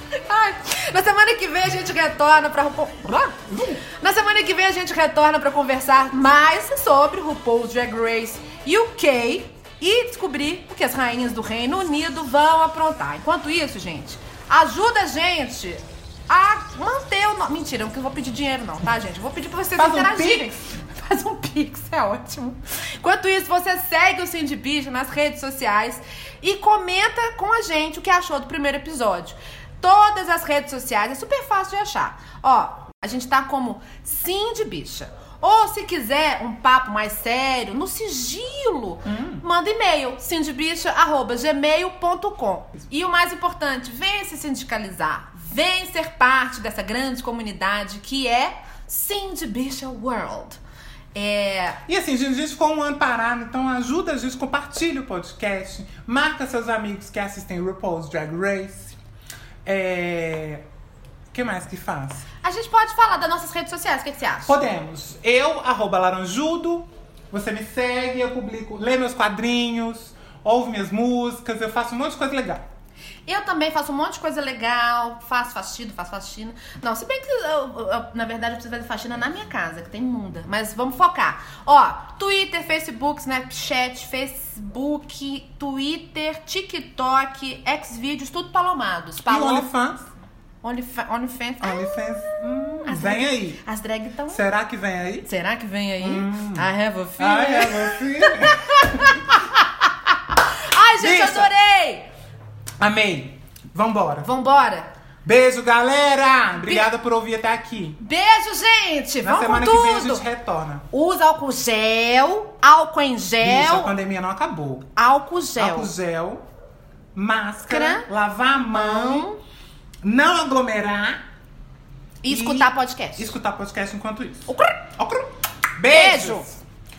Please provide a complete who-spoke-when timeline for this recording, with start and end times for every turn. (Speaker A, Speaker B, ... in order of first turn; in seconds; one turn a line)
Speaker A: 0.2-50.6
Speaker B: 3.5-3.8
Speaker B: 19.8-20.5
Speaker B: 39.0-39.4
Speaker A: 51.1-51.8
Speaker B: 51.9-59.0
Speaker B: 59.6-60.6
Speaker B: 61.3-62.2
Speaker A: 62.4-64.6
Speaker B: 64.5-72.6
Speaker A: 73.3-89.7
Speaker B: 89.2-90.1
Speaker A: 90.6-92.0
Speaker B: 91.6-93.6
Speaker A: 92.8-94.4
Speaker B: 94.3-95.3
Speaker A: 95.2-99.2
Speaker B: 96.0-99.4
Speaker A: 100.7-102.1
Speaker B: 101.0-101.5
Speaker B: 102.8-104.3
Speaker A: 104.2-104.9
Speaker B: 105.2-108.0
Speaker A: 108.0-110.2
Speaker B: 109.2-110.8
Speaker A: 110.9-113.9
Speaker B: 113.4-114.9
Speaker A: 115.0-115.9
Speaker B: 115.5-116.4
Speaker B: 117.1-119.3
Speaker A: 117.7-118.1
Speaker A: 118.7-119.4
Speaker B: 120.0-121.2
Speaker A: 122.2-123.3
Speaker B: 122.3-126.6
Speaker A: 124.5-124.8
Speaker A: 125.9-126.5